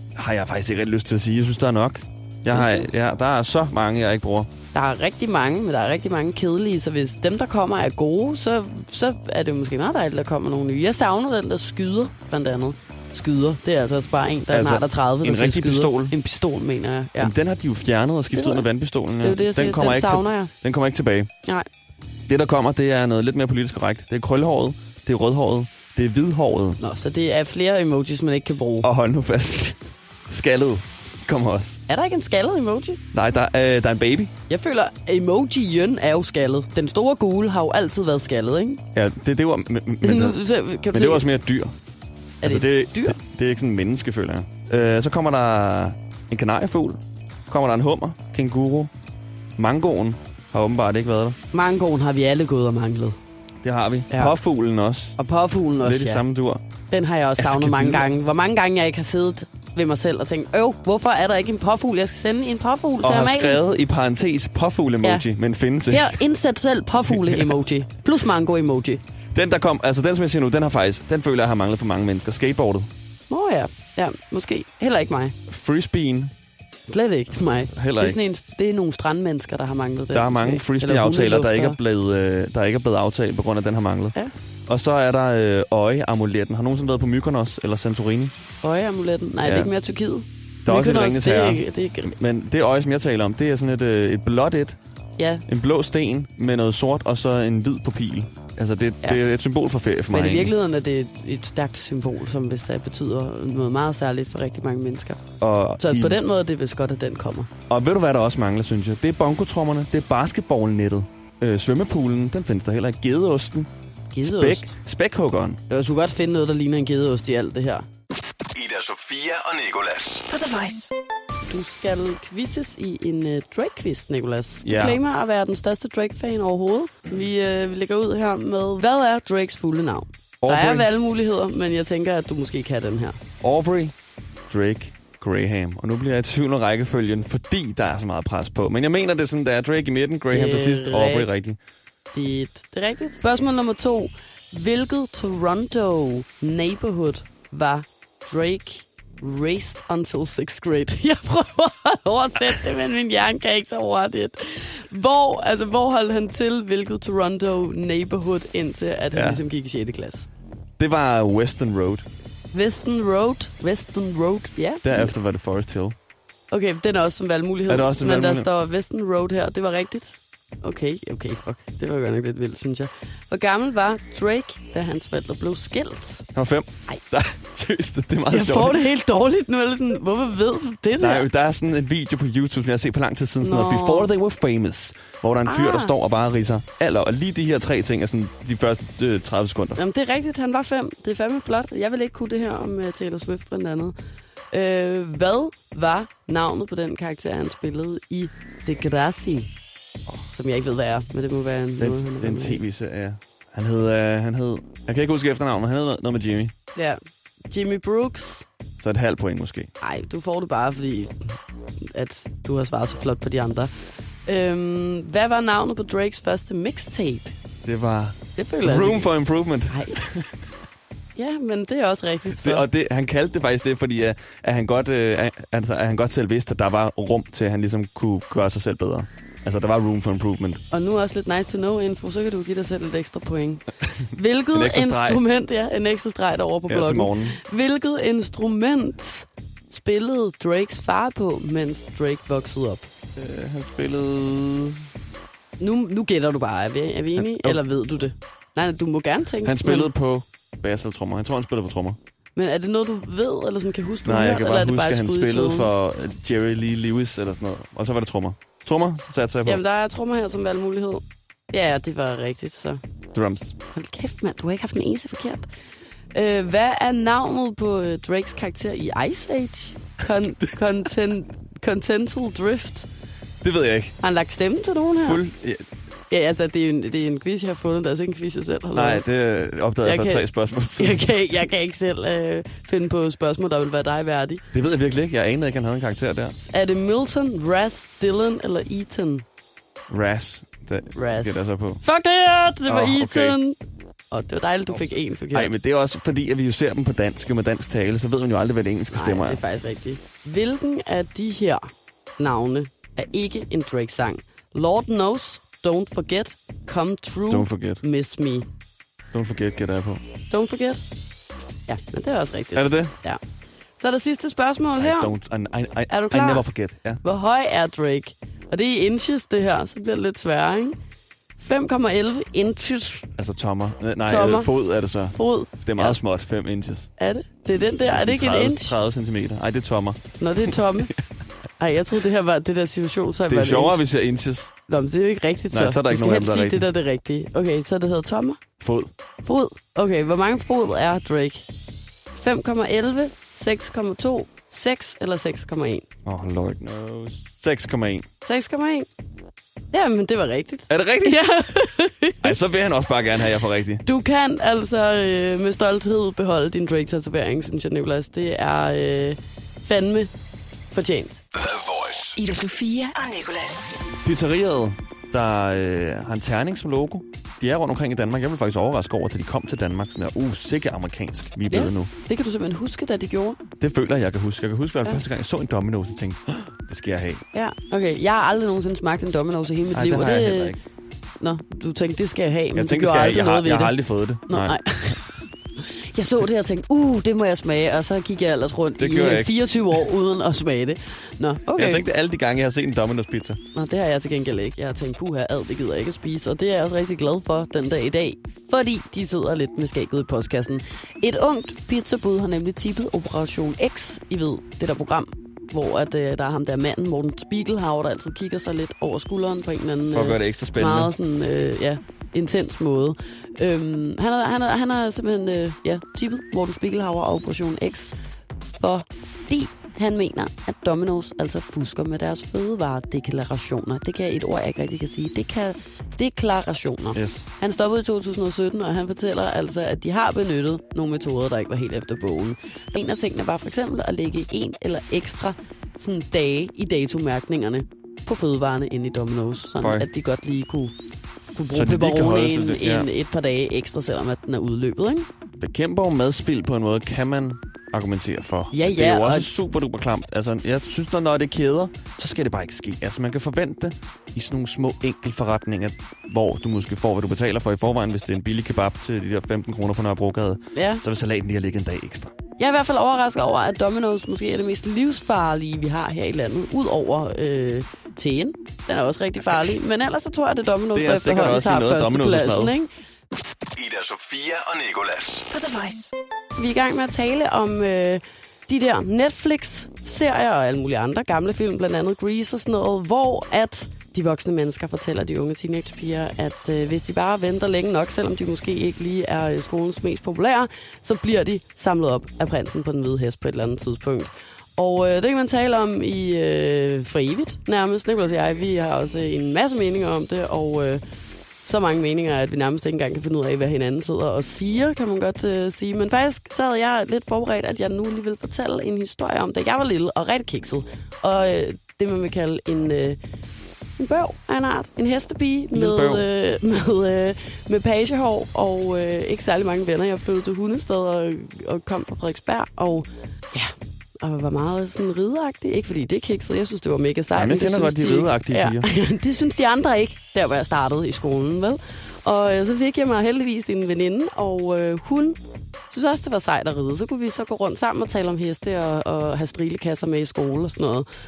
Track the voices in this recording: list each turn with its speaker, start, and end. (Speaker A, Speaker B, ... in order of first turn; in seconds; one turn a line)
Speaker A: 0.2-4.5
Speaker B: 2.5-2.9
Speaker B: 4.7-17.3
Speaker A: 14.5-16.2
Speaker A: 17.2-21.3
Speaker B: 18.3-18.7
Speaker B: 19.2-20.5
Speaker A: 22.3-26.8
Speaker B: 26.8-28.9
Speaker A: 28.8-29.8
Speaker A: 30.3-31.8
Speaker B: 31.9-33.0
Speaker A: 33.1-34.3
Speaker B: 34.5-38.8
Speaker A: 38.9-40.4
Speaker B: 40.0-41.3
Speaker A: 40.9-41.8
Speaker B: 42.4-43.2
Speaker A: 42.4-48.9
Speaker A: 49.6-51.4
Speaker B: 51.5-53.2
Speaker A: 53.6-55.2
Speaker B: 54.1-54.4
Speaker B: 55.2-56.2
Speaker A: 55.8-56.6
Speaker B: 56.9-63.6
Speaker A: 57.4-58.1
Speaker A: 63.0-66.2
Speaker B: 65.9-69.0
Speaker A: 67.1-67.6
Speaker A: 69.3-72.9
Speaker B: 73.3-75.4
Speaker A: 75.5-76.3
Speaker B: 76.9-81.8
Speaker A: 77.7-78.2
Speaker A: 80.1-84.2
Speaker A: 84.7-88.3
Speaker B: 88.6-92.2
Speaker A: 89.4-89.7
Speaker A: 90.7-94.8
Speaker B: 95.2-95.4
Speaker A: 95.5-100.5
Speaker B: 100.1-105.2
Speaker A: 105.4-106.2
Speaker B: 105.8-107.5
Speaker A: 107.7-113.7
Speaker B: 114.1-114.7
Speaker A: 114.2-115.6
Speaker B: 115.7-117.9
Speaker C: 118.5-120.3
Speaker D: 120.3-120.9
Speaker B: 121.5-133.2
Speaker A: 124.6-125.0
Speaker A: 130.4-130.9
Speaker A: 133.4-133.9
Speaker A: 134.5-141.6
Speaker B: 140.3-141.3
Speaker B: 142.1-160.3
Speaker A: 159.1-159.4
Speaker A: 160.8-162.1
Speaker B: 162.5-165.1
Speaker A: 164.8-166.0
Speaker B: 166.5-176.3
Speaker A: 167.7-168.5
Speaker A: 176.3-178.9
Speaker B: 178.3-181.3
Speaker A: 181.0-189.8
Speaker B: 183.4-184.1
Speaker B: 185.4-185.9
Speaker B: 189.8-193.9
Speaker B: 194.5-199.5
Speaker B: 200.3-202.6
Speaker A: 201.8-206.5
Speaker B: 207.5-208.5
Speaker A: 208.8-209.7
Speaker B: 209.8-213.7
Speaker B: 214.3-217.3
Speaker A: 217.7-220.3
Speaker B: 218.4-219.1
Speaker B: 219.7-220.0
Speaker B: 221.2-222.7
Speaker A: 222.3-230.6
Speaker B: 230.7-242.9
Speaker A: 234.5-235.2
Speaker A: 236.7-237.4
Speaker A: 243.2-244.9
Speaker B: 245.6-249.9
Speaker A: 247.2-247.6
Speaker A: 249.4-252.0
Speaker B: 252.3-255.7
Speaker A: 254.1-259.6
Speaker B: 259.4-262.8
Speaker A: 263.1-263.6
Speaker B: 263.7-265.5
Speaker B: 266.1-272.9
Speaker A: 273.4-273.9
Speaker B: 274.0-275.2
Speaker A: 275.0-275.7
Speaker B: 276.1-279.1
Speaker A: 278.8-281.2
Speaker B: 279.8-280.3
Speaker B: 280.8-284.4
Speaker A: 284.5-286.4
Speaker B: 286.4-289.2
Speaker A: 289.9-291.8
Speaker B: 290.9-293.6
Speaker A: 292.7-293.4
Speaker B: 294.1-295.5
Speaker A: 295.3-299.4
Speaker B: 298.9-301.6
Speaker B: 302.2-308.5
Speaker A: 307.3-307.8
Speaker A: 309.1-310.0
Speaker B: 310.3-310.8
Speaker B: 311.7-313.2
Speaker A: 312.5-312.9
Speaker B: 313.8-315.2
Speaker A: 314.8-317.0
Speaker B: 315.9-316.5
Speaker B: 317.0-320.8
Speaker B: 321.4-323.1
Speaker A: 323.2-326.9
Speaker B: 324.1-324.5
Speaker B: 325.1-326.0
Speaker B: 327.0-328.8
Speaker A: 327.6-330.9
Speaker B: 330.2-330.9
Speaker B: 331.6-333.8
Speaker A: 333.3-334.5
Speaker B: 334.7-338.4
Speaker A: 335.5-336.7
Speaker A: 338.6-338.9
Speaker B: 339.2-341.5
Speaker B: 342.1-345.9
Speaker A: 346.1-348.1
Speaker B: 348.2-348.9
Speaker B: 349.7-352.4
Speaker A: 350.7-351.3
Speaker A: 352.2-353.8
Speaker B: 353.8-360.1
Speaker B: 360.7-361.2
Speaker C: 361.4-362.2
Speaker D: 362.2-363.7
Speaker A: 364.0-371.9
Speaker B: 371.5-373.4
Speaker A: 373.6-377.2
Speaker B: 377.3-380.6
Speaker A: 379.7-380.6
Speaker B: 381.2-383.8
Speaker A: 382.5-384.6
Speaker B: 384.3-391.9
Speaker A: 388.8-389.8
Speaker A: 391.6-393.4
Speaker B: 393.5-417.9
Speaker A: 409.9-410.9
Speaker B: 418.6-440.7
Speaker A: 426.9-427.3
Speaker A: 439.6-439.9
Speaker B: 441.3-445.1
Speaker A: 441.5-442.9
Speaker A: 445.4-462.1
Speaker B: 448.5-449.4
Speaker B: 460.6-460.8
Speaker B: 462.4-472.7
Speaker A: 470.7-472.6
Speaker C: 473.6-475.3
Speaker D: 475.3-475.9
Speaker B: 476.4-500.8
Speaker B: 501.4-513.0
Speaker B: 513.8-535.2
Speaker A: 515.5-516.1
Speaker A: 527.1-528.7
Speaker B: 535.7-540.9